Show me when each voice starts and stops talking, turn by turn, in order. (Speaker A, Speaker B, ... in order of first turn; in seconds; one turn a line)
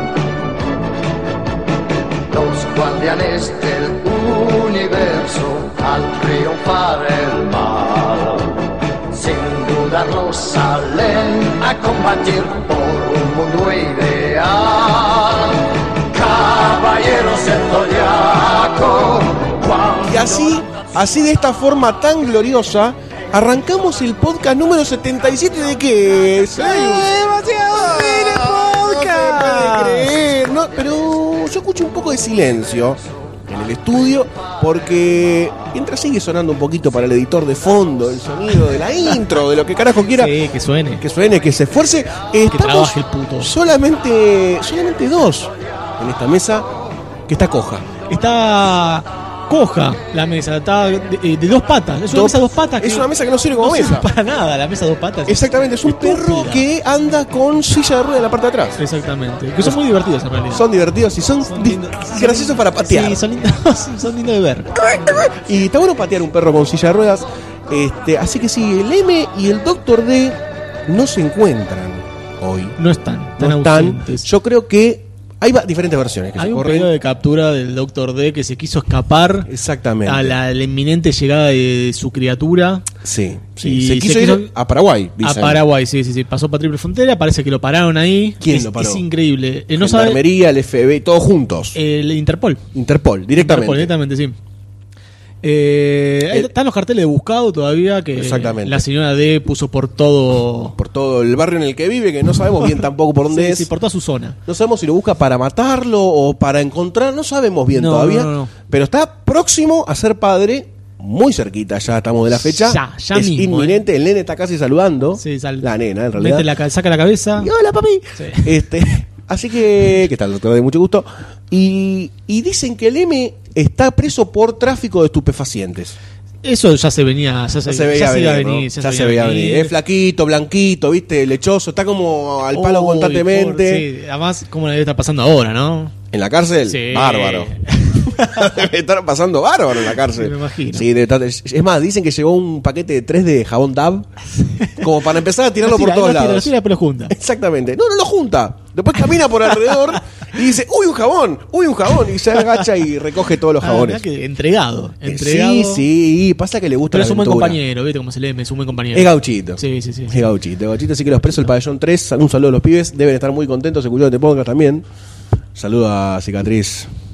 Speaker A: 2.3-8.6
Speaker A: 9.1-20.5
Speaker B: 20.0-40.4
Speaker C: 26.6-30.1
Speaker C: 40.2-41.0
Speaker B: 41.0-46.7
Speaker C: 42.5-43.5
Speaker B: 47.3-47.9
Speaker C: 48.1-56.6
Speaker B: 52.1-54.1
Speaker B: 55.3-58.8
Speaker C: 58.8-60.6
Speaker B: 60.5-63.2
Speaker C: 61.5-64.7
Speaker B: 65.2-72.8
Speaker C: 72.8-74.3
Speaker B: 73.4-76.9
Speaker C: 76.4-79.5
Speaker B: 79.5-80.4
Speaker C: 80.1-82.8
Speaker B: 83.0-85.6
Speaker C: 83.6-84.5
Speaker C: 85.2-90.2
Speaker B: 88.4-89.0
Speaker B: 89.8-91.8
Speaker C: 91.8-92.6
Speaker B: 92.7-93.9
Speaker C: 93.4-94.4
Speaker C: 95.4-100.8
Speaker B: 98.1-98.8
Speaker B: 100.8-103.7
Speaker C: 103.3-104.4
Speaker B: 104.5-116.5
Speaker C: 107.7-108.5
Speaker C: 112.5-113.8
Speaker C: 115.2-117.5
Speaker B: 117.4-126.0
Speaker C: 118.2-118.5
Speaker C: 126.4-129.7
Speaker B: 127.7-133.9
Speaker C: 132.5-135.9
Speaker B: 136.1-144.1
Speaker C: 136.7-138.5
Speaker C: 139.9-140.9
Speaker C: 144.4-144.8
Speaker B: 144.8-146.5
Speaker C: 145.6-147.2
Speaker B: 147.1-154.0
Speaker C: 149.7-150.0
Speaker C: 153.6-155.8
Speaker B: 155.1-157.6
Speaker C: 156.9-160.3
Speaker B: 158.9-164.9
Speaker B: 165.6-166.9